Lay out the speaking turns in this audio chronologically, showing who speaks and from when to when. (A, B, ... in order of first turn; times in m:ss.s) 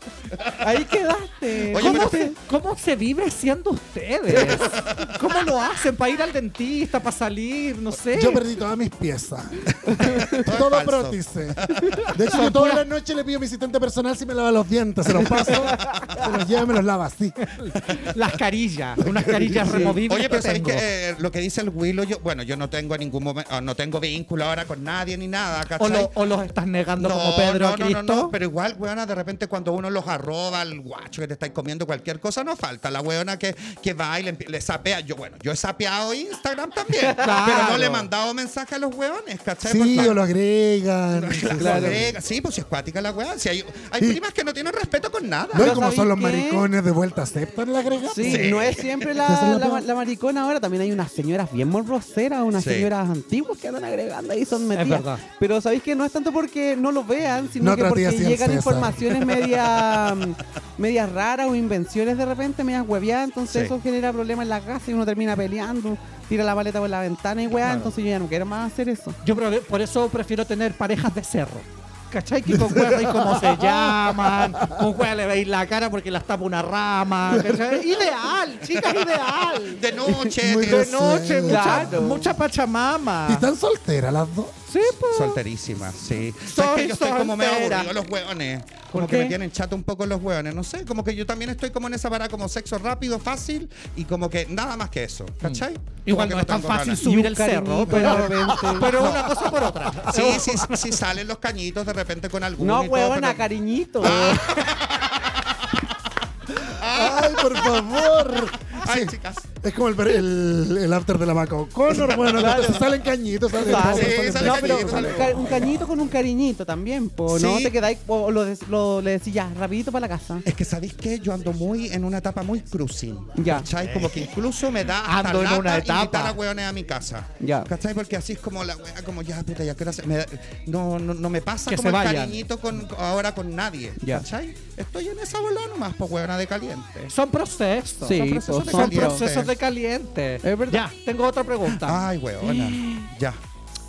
0:00.3-0:00.6 A
0:00.6-0:02.4 B
0:01.7-0:02.3 A
0:01.7-0:08.4 C
0:04.3-0:05.2 A
0:08.1-0:17.5 D
0:09.9-0:10.4 B
0:10.0-0:12.1 A
0:12.3-0:12.8 C
0:15.8-0:16.2 A
0:17.4-0:20.8 C
0:19.0-0:19.6 D
0:19.6-0:20.0 B
0:19.7-0:26.1 A
0:25.8-0:28.3 C
0:27.0-0:40.2 A
0:37.1-0:37.4 B
0:37.2-0:38.1 C
0:39.6-0:42.2 D
0:41.1-0:45.8 A
0:41.6-0:42.1 B
0:45.5-0:49.8 D
0:45.5-0:46.6 B
0:48.1-1:09.2 B
0:48.2-0:49.2 A
0:52.5-0:52.9 A
0:54.7-0:55.2 C
0:57.6-0:59.2 D
1:03.5-1:03.7 A
1:07.6-1:07.9 C
1:09.2-1:19.8 C
1:12.5-1:14.8 D
1:17.3-1:17.8 D
1:19.6-1:21.0 A
1:20.0-1:20.4 B
1:20.4-1:22.1 D
1:20.6-1:23.4 C
1:21.4-1:22.4 B
1:23.2-1:24.5 D
1:24.7-1:25.4 C
1:25.1-1:37.0 A
1:26.4-1:27.9 C
1:28.9-1:29.4 B
1:35.4-1:41.0 C
1:37.0-1:39.2 B
1:38.9-1:43.5 A
1:42.6-1:44.7 B
1:44.0-1:45.9 A
1:46.6-1:49.5 A
1:46.9-1:55.8 D
1:52.1-1:52.9 B
1:53.5-2:00.4 B
1:53.6-1:55.7 A
1:57.3-1:57.7 A
2:00.4-2:17.1 A
2:03.4-2:03.7 B
2:03.8-2:04.2 C
2:05.0-2:06.4 C
2:07.4-2:07.7 B
2:11.7-2:12.4 C
2:14.0-2:14.2 B
2:17.1-2:22.0 C
2:18.0-2:19.2 B
2:18.1-2:19.5 A
2:20.4-2:20.8 B
2:21.7-2:23.4 A
2:22.4-2:23.1 B